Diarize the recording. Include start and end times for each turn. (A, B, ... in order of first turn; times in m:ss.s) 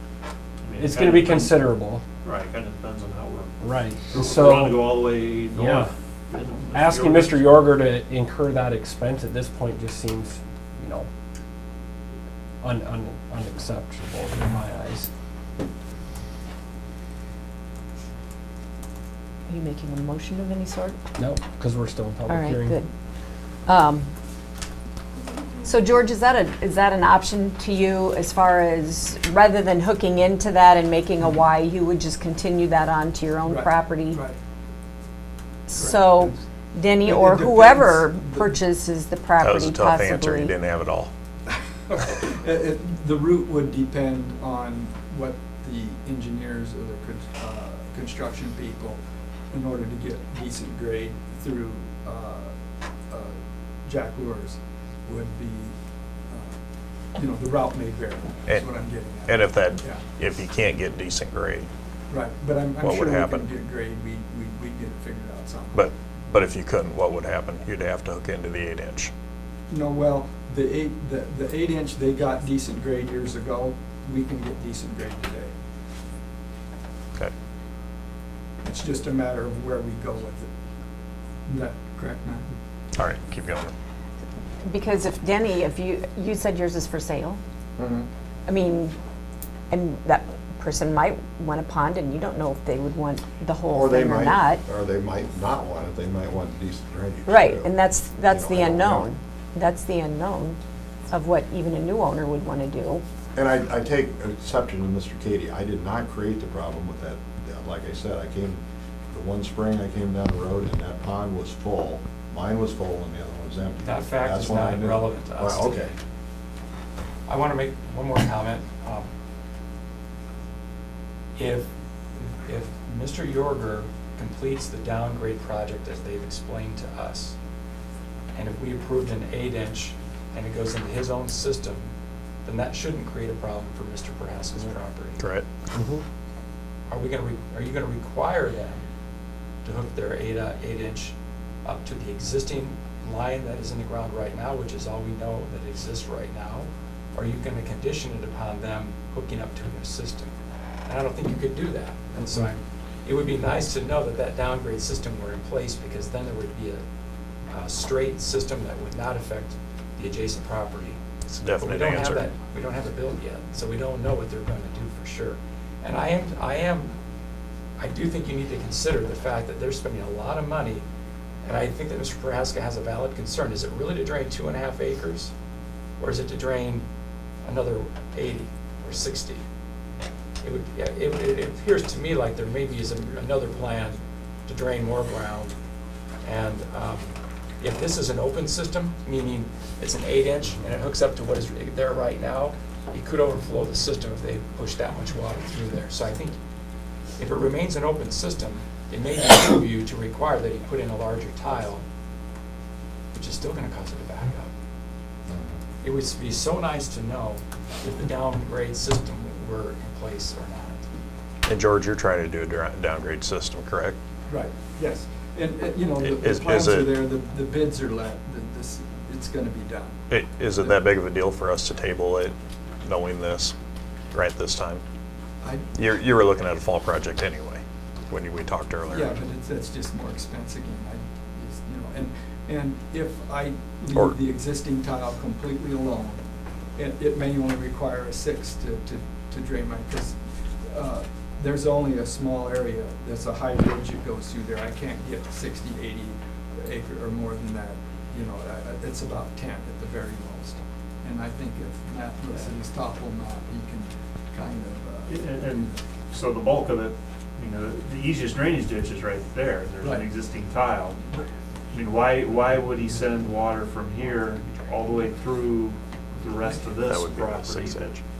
0:00.6-0:01.6 A
0:00.8-0:02.0 B
0:02.2-0:03.5 A
0:03.6-0:05.9 B
0:04.1-0:07.4 A
0:06.7-0:11.1 B
0:12.6-0:15.1 B
0:19.5-0:21.0 C
0:21.2-0:22.7 B
0:22.3-0:22.9 C
0:23.6-0:24.1 C
0:25.6-0:34.2 C
0:33.4-0:34.4 D
0:35.7-0:40.6 C
0:35.7-0:36.4 D
0:37.0-0:38.6 D
0:39.4-0:41.1 E
0:41.9-0:49.0 D
0:49.5-0:52.5 D
0:53.1-0:55.7 D
0:56.3-0:56.6 D
0:57.2-1:00.0 D
0:59.2-1:01.7 E
1:02.1-1:05.9 D
1:02.8-1:03.5 E
1:05.7-1:09.1 E
1:09.7-1:15.5 D
1:18.6-1:20.5 D
1:21.5-1:22.5 D
1:22.9-1:23.7 E
1:24.6-1:27.4 C
1:27.8-1:28.1 F
1:28.4-1:28.9 C
1:29.7-1:34.6 C
1:33.7-1:37.7 F
1:37.3-1:40.6 C
1:38.2-1:39.1 F
1:41.1-1:43.0 C
1:43.3-1:55.9 F
1:53.8-1:55.8 G
1:57.3-1:59.1 G
2:01.4-2:07.4 G
2:08.3-2:11.9 G
2:12.4-2:15.2 G
2:15.2-2:15.4 E
2:15.7-2:16.0 B
2:16.9-2:18.8 G
2:19.6-2:30.3 G
2:30.8-2:36.8 G
2:37.5-2:41.0 G
2:41.3-2:42.3 E
2:41.5-2:46.9 G
2:47.8-2:50.8 G
2:51.4-2:55.3 G
2:56.0-2:56.8 G
2:57.4-2:59.4 G
3:00.4-3:05.5 G
3:06.2-3:16.4 G
3:17.2-3:21.8 G
3:23.1-3:24.5 G
3:25.3-3:25.5 F
3:25.8-3:30.8 G
3:31.4-3:34.0 E
3:34.3-3:40.0 D
3:36.0-3:37.0 E
3:40.1-3:43.5 E
3:44.1-3:44.8 E
3:45.4-3:45.7 D
3:45.7-3:49.2 E
3:48.9-3:56.2 D
3:56.8-4:15.2 D
4:15.1-4:21.0 A
4:19.8-4:20.1 D
4:21.7-4:28.0 A
4:26.8-4:28.0 E